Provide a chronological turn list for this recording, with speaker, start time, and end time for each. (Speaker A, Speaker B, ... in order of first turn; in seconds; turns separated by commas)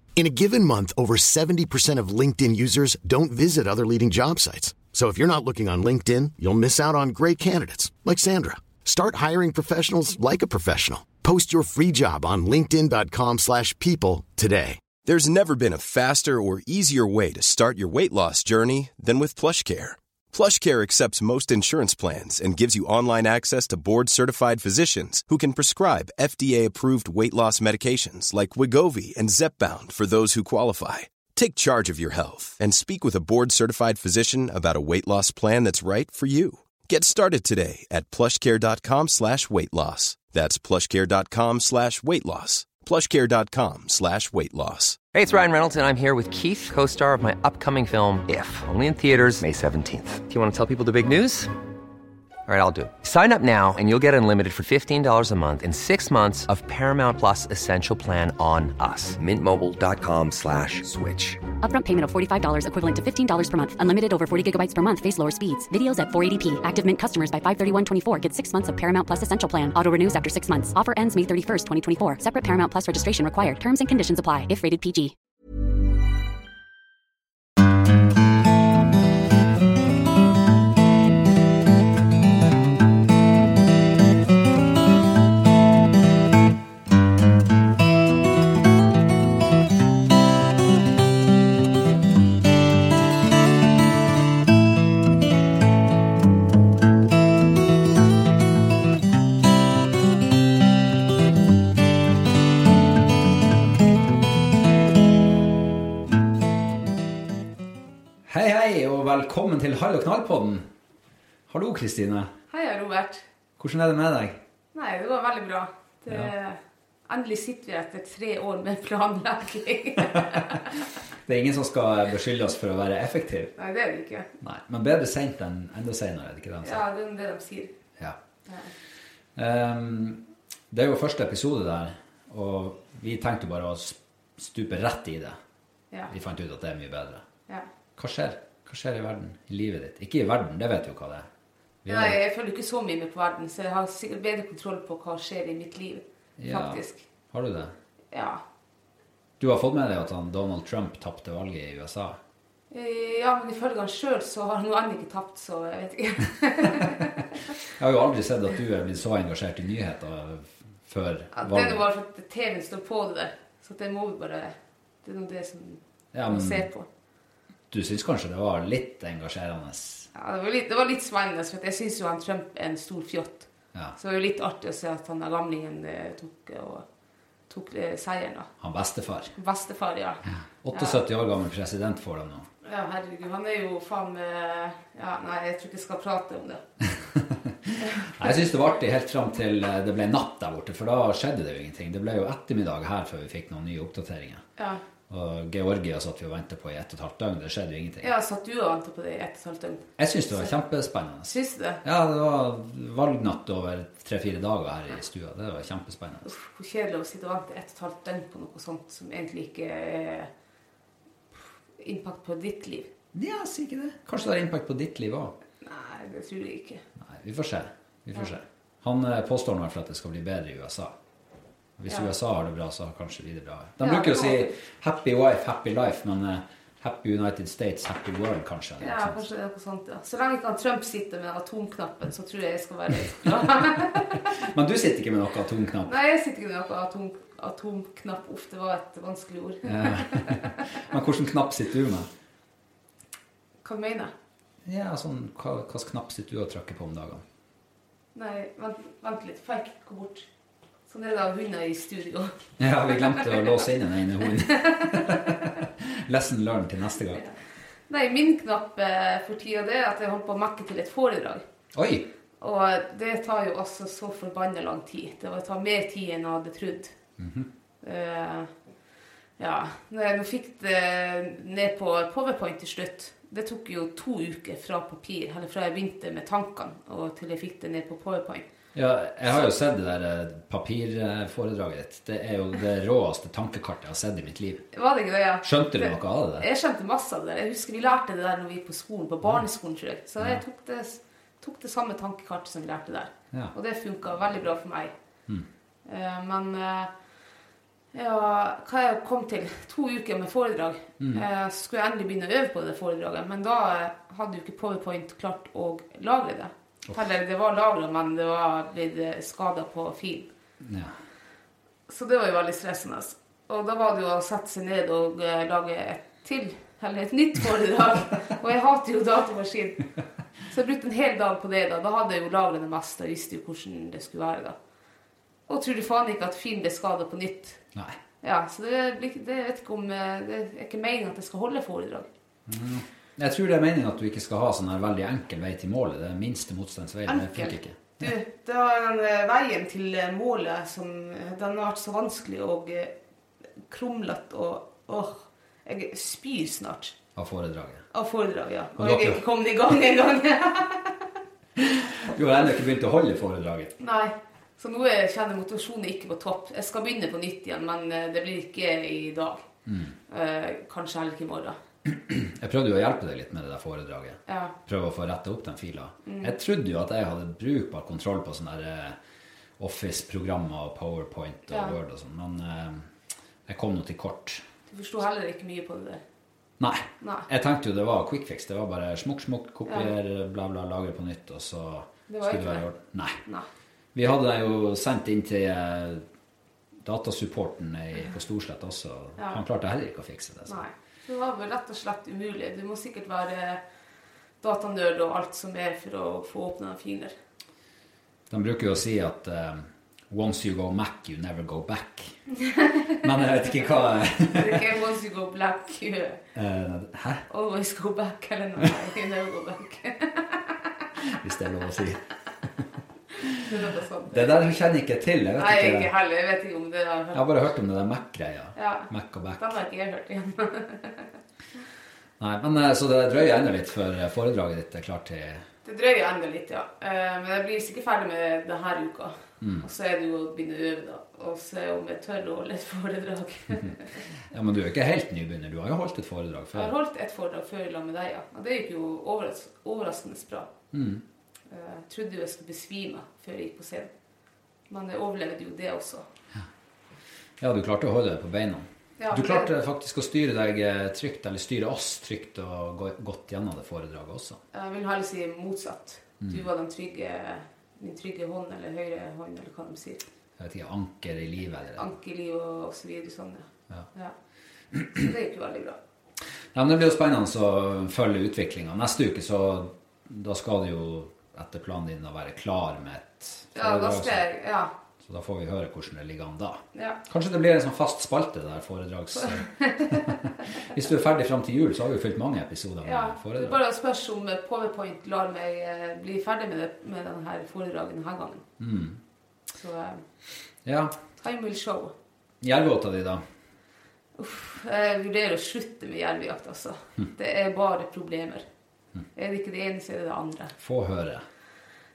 Speaker A: 0.1-14.8, Speaker B: 15.0-45.0, Speaker C: 45.1-51.5, Speaker C: 52.5-61.4, Speaker D: 61.6-75.1, Speaker E: 108.2-110.7, Speaker E: 111.5-112.3, Speaker F: 112.5-113.2, Speaker E: 113.6-114.4, Speaker F: 114.7-120.7, Speaker E: 120.2-123.5, Speaker F: 123.6-124.3, Speaker E: 124.4-126.8, Speaker F: 126.6-127.7, Speaker E: 129.3-135.4, Speaker E: 136.1-137.2, Speaker E: 138.0-141.3, Speaker E: 141.8-142.2, Speaker F: 141.9-147.1, Speaker E: 146.4-147.7, Speaker F: 148.1-148.4, Speaker E: 149.4-152.2, Speaker F: 152.7-157.2, Speaker E: 157.8-161.8, Speaker F: 161.3-166.9, Speaker E: 166.1-166.7, Speaker E: 167.7-170.1, Speaker F: 170.1-176.8, Speaker F: 177.5-178.5, Speaker E: 178.6-179.3, Speaker F: 179.3-181.0, Speaker E: 180.3-182.5, Speaker F: 182.6-186.6, Speaker E: 187.1-194.4, Speaker E: 195.1-198.1, Speaker F: 198.0-200.5, Speaker E: 200.0-206.3, Speaker F: 201.3-201.8, Speaker F: 206.2-210.3, Speaker F: 211.8-212.9, Speaker E: 213.1-215.3, Speaker F: 215.6-216.8, Speaker E: 217.0-220.9, Speaker E: 221.8-229.3, Speaker F: 223.8-224.5, Speaker F: 228.8-234.2, Speaker E: 233.6-236.0, Speaker F: 235.8-240.6, Speaker E: 239.7-242.1, Speaker F: 243.6-244.1, Speaker E: 244.6-247.2, Speaker F: 248.1-250.3, Speaker F: 250.9-252.3, Speaker E: 252.6-257.2, Speaker F: 252.9-253.5, Speaker F: 254.4-255.4, Speaker F: 257.9-261.4, Speaker E: 261.7-262.1, Speaker F: 262.4-266.9, Speaker E: 267.2-267.5, Speaker F: 267.8-268.5, Speaker F: 269.4-278.4, Speaker E: 278.7-284.6, Speaker F: 284.7-294.9, Speaker E: 285.4-286.5, Speaker F: 295.9-296.9, Speaker F: 297.9-310.3, Speaker E: 301.0-301.2, Speaker E: 310.6-310.9, Speaker F: 311.9-319.8, Speaker F: 320.5-324.6, Speaker F: 325.5-327.6, Speaker F: 328.2-332.1, Speaker E: 332.5-338.1, Speaker F: 337.1-342.9, Speaker F: 343.7-346.9, Speaker E: 347.1-347.8, Speaker F: 347.9-351.0, Speaker E: 348.8-349.2, Speaker E: 351.6-353.7, Speaker F: 353.8-359.4, Speaker E: 359.6-359.9, Speaker F: 360.1-361.6, Speaker E: 361.8-369.0, Speaker F: 364.3-364.5, Speaker F: 366.1-366.3, Speaker E: 369.6-372.9, Speaker F: 371.5-371.8, Speaker E: 373.5-374.4, Speaker F: 374.7-376.0, Speaker E: 376.6-383.2, Speaker F: 377.0-377.3, Speaker F: 382.1-382.6, Speaker E: 383.9-386.0, Speaker E: 386.8-390.6, Speaker F: 390.4-393.6, Speaker F: 394.4-397.1, Speaker E: 398.3-402.2, Speaker F: 402.4-403.0, Speaker E: 403.0-404.7, Speaker F: 404.2-406.2, Speaker E: 406.3-407.2, Speaker F: 407.3-410.6, Speaker E: 411.0-412.0, Speaker E: 413.2-413.4, Speaker F: 413.3-414.4, Speaker E: 414.1-415.9, Speaker F: 415.4-417.3, Speaker E: 417.1-419.5, Speaker F: 418.5-421.1, Speaker E: 422.2-425.4, Speaker F: 425.6-433.9, Speaker E: 429.4-429.6, Speaker E: 434.3-436.7, Speaker F: 436.5-440.5, Speaker E: 440.7-441.0, Speaker F: 441.5-443.9, Speaker F: 444.7-446.1, Speaker E: 447.4-454.4, Speaker F: 449.0-449.5, Speaker F: 454.5-460.0, Speaker E: 460.4-461.9, Speaker F: 461.8-464.1, Speaker F: 464.9-465.8, Speaker E: 466.5-474.3, Speaker F: 473.5-474.7, Speaker E: 475.0-483.6, Speaker F: 479.1-480.2, Speaker F: 482.8-488.4, Speaker E: 488.6-489.0, Speaker F: 489.5-490.0, Speaker E: 490.6-490.9, Speaker F: 491.2-491.9, Speaker E: 492.4-493.2, Speaker F: 494.2-498.4, Speaker F: 499.1-500.5, Speaker E: 500.6-501.2